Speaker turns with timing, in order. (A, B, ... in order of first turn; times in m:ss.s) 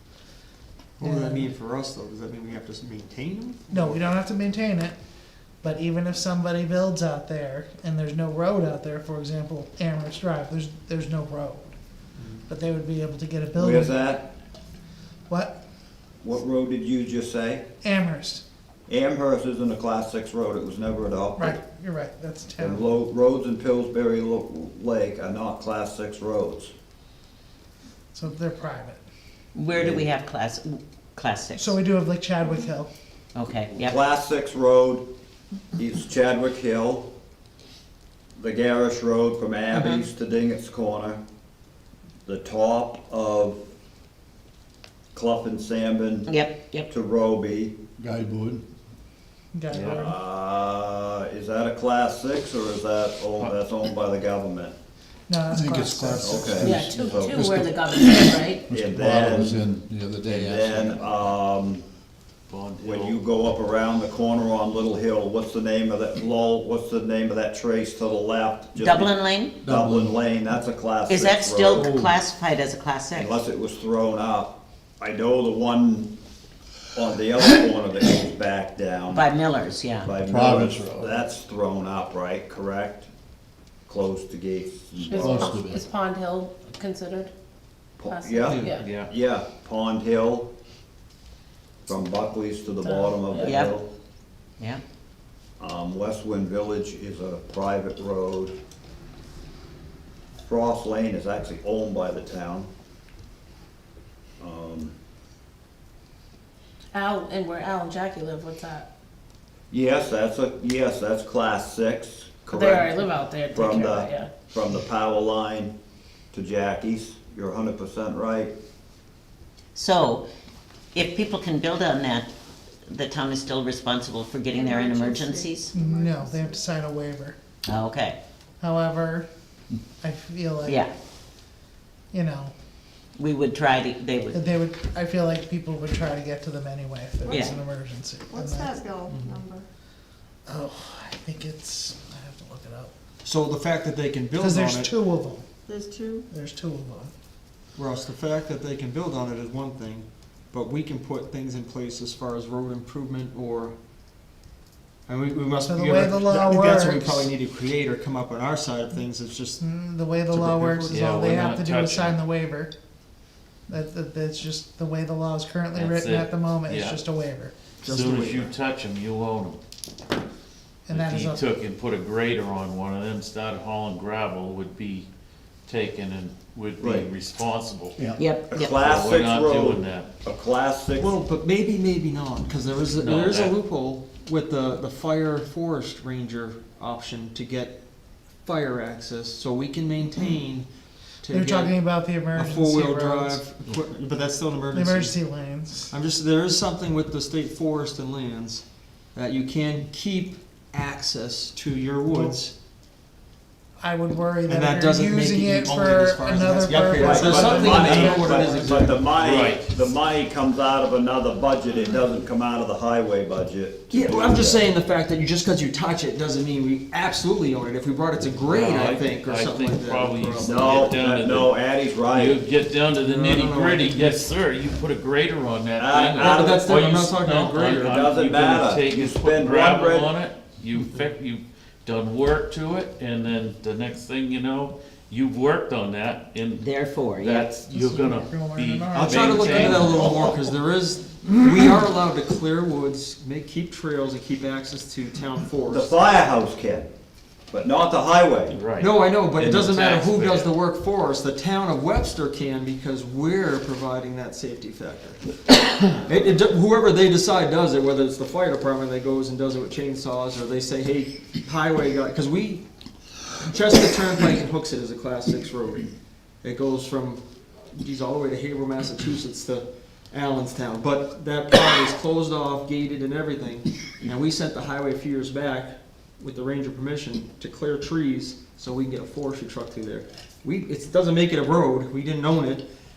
0:01.0-0:04.0 A
0:01.0-0:01.5 B
0:03.7-0:05.0 B
0:05.6-0:11.8 B
0:12.2-0:12.4 A
0:12.5-0:14.0 B
0:13.6-0:14.3 C
0:15.3-0:15.6 B
0:16.2-0:17.6 C
0:17.8-0:18.4 B
0:18.9-0:21.6 C
0:21.4-0:22.9 B
0:22.6-0:26.7 C
0:28.1-0:29.0 B
0:29.5-0:31.8 D
0:29.7-0:30.0 C
0:31.5-0:32.9 B
0:33.3-0:34.0 D
0:33.7-0:35.0 C
0:35.7-0:37.1 C
0:38.4-0:41.2 C
0:39.7-0:40.0 D
0:42.2-0:43.6 C
0:45.1-0:46.3 C
0:46.3-0:46.9 D
0:46.9-0:47.8 C
0:48.0-0:48.6 E
0:49.5-0:50.2 B
0:49.7-0:50.1 F
0:49.9-0:54.8 C
0:55.3-0:56.7 B
0:55.5-1:01.1 E
0:56.2-0:57.4 C
0:56.6-0:58.7 G
0:58.7-0:59.7 C
1:00.2-1:01.8 C
1:02.5-1:03.2 F
1:02.8-1:11.9 C
1:08.8-1:09.5 D
1:09.6-1:10.1 E
1:11.1-1:13.3 D
1:11.7-1:12.2 E
1:13.1-1:16.1 C
1:16.9-1:19.3 C
1:19.1-1:20.1 D
1:20.0-1:23.1 C
1:20.1-1:21.2 E
1:23.9-1:25.6 C
1:25.1-1:25.8 E
1:25.1-1:27.3 G
1:28.0-1:30.5 C
1:28.0-1:28.9 G
1:28.6-1:29.1 F
1:31.8-1:33.9 C
1:32.8-1:33.6 G
1:33.4-1:33.7 D
1:35.6-1:38.5 C
1:40.4-1:42.7 C
1:44.4-1:44.9 C
1:46.9-1:48.9 G
1:49.7-1:55.7 C
1:52.5-1:54.3 G
1:56.3-1:58.5 C
1:59.7-2:00.2 D
2:00.9-2:02.3 D
2:02.9-2:05.7 D
2:04.5-2:05.2 G
2:05.2-2:06.6 H
2:05.7-2:07.4 B
2:07.7-2:08.2 D
2:08.6-2:09.3 B
2:10.0-2:10.8 B
2:10.6-2:10.9 D
2:12.1-2:12.5 B
2:13.2-2:14.4 D
2:14.3-2:18.8 B
2:17.3-2:17.5 D
2:18.3-2:19.6 H
2:20.5-2:22.9 B
2:23.2-2:25.0 A
2:24.4-2:25.5 B
2:25.7-2:26.2 H
2:26.3-2:27.1 B
2:27.8-2:33.8 A
2:35.1-2:39.6 A
2:35.6-2:37.3 B
2:39.6-2:42.7 B
2:40.3-2:41.2 A
2:40.9-2:42.2 F
2:43.7-2:47.5 B
2:45.7-2:47.0 F
2:47.8-2:48.5 A
2:47.8-2:49.6 F
2:50.9-2:51.4 B
2:50.9-2:55.1 F
2:55.7-2:58.0 F
2:56.8-2:57.1 C
2:58.0-2:58.2 E
2:58.2-2:58.8 D
2:58.5-3:01.1 C
2:58.7-3:00.1 F
3:01.0-3:07.8 A
3:03.0-3:03.5 F
3:08.4-3:10.7 A
3:11.2-3:11.8 A
3:11.3-3:13.4 B
3:12.3-3:15.2 A
3:14.7-3:15.9 B
3:15.9-3:22.5 A
3:22.1-3:22.4 B
3:23.8-3:28.9 B
3:24.5-3:29.1 A
3:27.0-3:34.7 C
3:29.2-3:29.8 F
3:33.9-3:40.8 A
3:38.5-3:56.7 F
3:40.4-3:42.4 C
3:43.0-3:44.3 A
3:45.8-3:46.7 C
3:46.2-3:48.0 A
3:47.8-3:50.1 C
3:56.6-3:57.5 D
3:57.2-4:00.2 F
3:57.7-4:00.0 B
3:58.9-4:06.1 A
3:59.8-4:00.3 C
4:05.7-4:06.9 C
4:07.5-4:08.6 C
4:08.5-4:10.5 F
4:08.8-4:22.6 A
4:23.5-4:25.9 A
4:26.4-4:42.6 A